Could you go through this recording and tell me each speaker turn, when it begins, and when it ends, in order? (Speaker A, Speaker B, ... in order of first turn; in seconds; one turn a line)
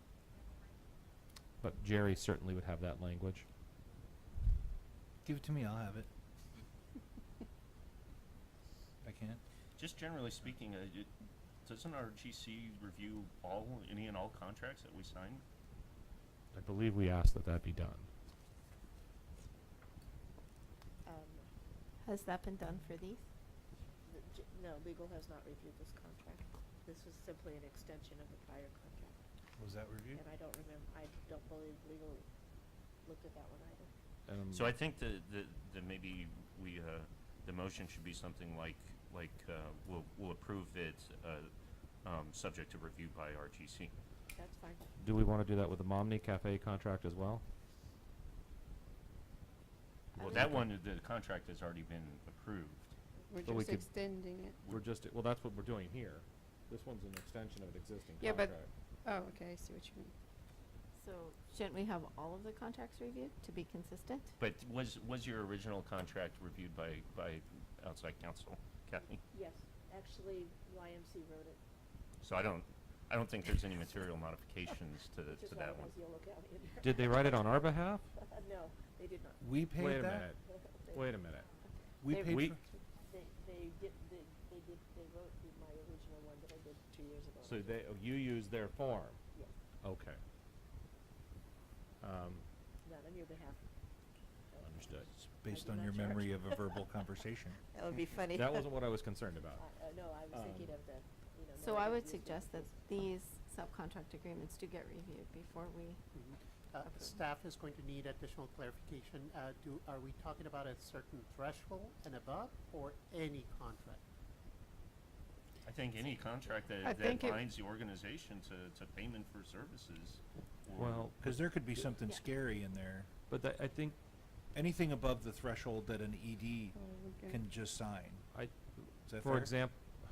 Speaker A: 1.6-3.5
Speaker B: 5.2-6.1
Speaker B: 9.0-9.4
Speaker C: 9.8-11.1
Speaker C: 11.7-15.4
Speaker A: 16.5-18.1
Speaker D: 21.1-21.5
Speaker E: 22.0-23.2
Speaker D: 24.1-29.2
Speaker B: 29.6-30.2
Speaker D: 30.1-32.2
Speaker D: 33.0-33.9
Speaker A: 34.3-34.7
Speaker C: 34.5-41.5
Speaker C: 42.0-43.9
Speaker D: 44.4-44.9
Speaker A: 45.0-47.4
Speaker C: 50.2-52.9
Speaker A: 50.4-50.7
Speaker F: 53.3-54.6
Speaker A: 53.5-53.9
Speaker A: 54.7-58.7
Speaker F: 58.2-60.1
Speaker E: 61.0-64.3
Speaker C: 64.4-69.2
Speaker D: 69.3-71.6
Speaker C: 72.2-76.0
Speaker D: 75.3-77.6
Speaker A: 76.8-78.0
Speaker D: 78.2-79.4
Speaker B: 79.4-80.3
Speaker A: 79.8-80.4
Speaker D: 80.5-81.0
Speaker A: 80.9-81.5
Speaker D: 81.7-81.9
Speaker B: 82.0-82.6
Speaker A: 82.2-82.6
Speaker D: 83.0-87.8
Speaker A: 87.4-89.2
Speaker A: 89.8-90.2
Speaker A: 92.0-92.4
Speaker D: 92.8-93.6
Speaker D: 94.5-96.6
Speaker A: 94.6-95.1
Speaker B: 95.4-97.6
Speaker D: 97.7-98.7
Speaker A: 98.3-99.6
Speaker D: 99.5-102.7
Speaker A: 100.3-100.8
Speaker E: 101.6-106.0
Speaker G: 106.1-114.0
Speaker C: 115.6-121.2
Speaker F: 116.8-117.2
Speaker A: 120.8-121.4
Speaker B: 121.2-123.1
Speaker A: 123.3-124.0
Speaker B: 124.5-126.8
Speaker F: 126.8-127.5
Speaker B: 127.3-128.2
Speaker A: 128.3-129.8
Speaker B: 129.1-129.5